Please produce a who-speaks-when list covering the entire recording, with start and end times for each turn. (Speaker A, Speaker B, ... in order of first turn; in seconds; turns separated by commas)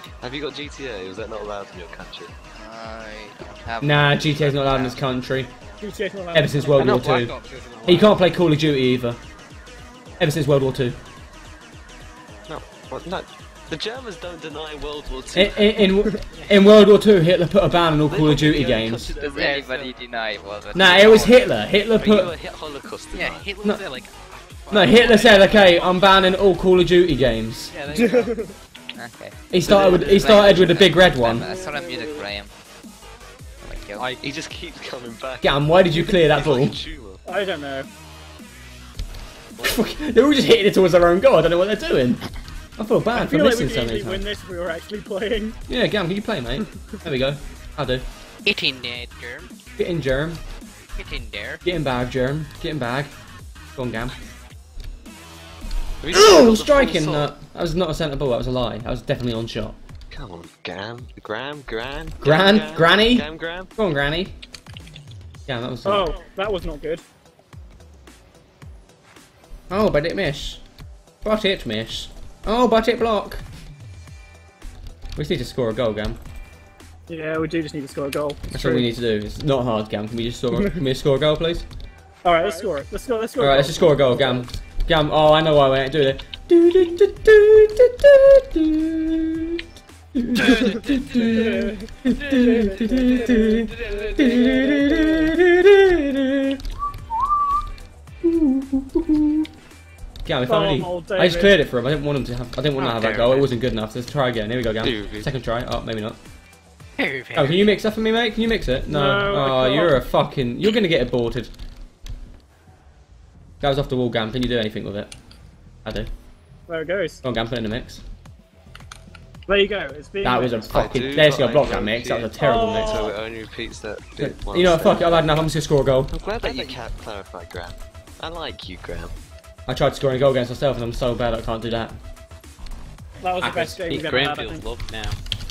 Speaker A: 0.2-2.3, Speaker B: 2.5-5.0, Speaker C: 3.8-5.5, Speaker D: 5.8-7.2, Speaker C: 6.3-9.2, Speaker E: 6.8-8.3, Speaker C: 10.2-11.0, Speaker A: 12.5-15.8, Speaker C: 15.3-19.1, Speaker E: 16.3-16.7, Speaker A: 18.1-19.6, Speaker B: 19.2-21.5, Speaker E: 19.2-19.9, Speaker C: 20.7-22.3, Speaker A: 22.0-23.5, Speaker E: 23.1-26.5, Speaker C: 24.7-27.7, Speaker E: 27.7-28.4, Speaker D: 27.9-28.5, Speaker B: 28.9-32.5, Speaker C: 29.5-31.5, Speaker A: 29.6-30.7, Speaker E: 31.5-32.2, Speaker B: 33.6-34.1, Speaker E: 34.0-34.3, Speaker A: 34.2-37.2, Speaker C: 35.4-36.8, Speaker D: 37.3-37.9, Speaker C: 39.6-42.2, Speaker C: 42.8-44.3, Speaker D: 43.1-45.6, Speaker C: 45.7-48.0, Speaker E: 48.5-49.5, Speaker C: 49.8-50.4, Speaker E: 51.0-51.6, Speaker C: 51.6-53.1, Speaker C: 53.8-54.1, Speaker A: 56.0-57.3, Speaker C: 56.1-59.8, Speaker A: 60.1-63.7, Speaker C: 62.2-64.3, Speaker C: 65.5-66.1, Speaker D: 65.8-67.0, Speaker C: 69.7-70.6, Speaker C: 71.2-73.4, Speaker C: 75.2-76.2, Speaker D: 77.1-78.9, Speaker C: 78.5-81.7, Speaker D: 82.2-84.5, Speaker C: 83.4-89.6, Speaker C: 90.2-96.6, Speaker E: 90.4-91.5, Speaker D: 91.2-94.2, Speaker E: 92.2-95.1, Speaker C: 98.2-99.5, Speaker C: 100.2-106.2, Speaker D: 100.5-101.6, Speaker E: 102.8-103.5, Speaker A: 104.8-105.3, Speaker E: 107.0-107.8, Speaker C: 107.3-111.5, Speaker D: 108.9-110.0, Speaker C: 113.6-115.1, Speaker C: 115.8-116.1, Speaker D: 116.7-117.2, Speaker C: 117.2-118.0, Speaker D: 119.5-121.2, Speaker C: 120.2-123.1, Speaker A: 120.7-125.3, Speaker D: 122.4-123.1, Speaker C: 124.2-126.1, Speaker A: 126.1-129.1, Speaker E: 126.4-126.7, Speaker C: 129.7-132.0, Speaker D: 133.2-134.7, Speaker C: 133.4-134.0, Speaker E: 133.9-135.2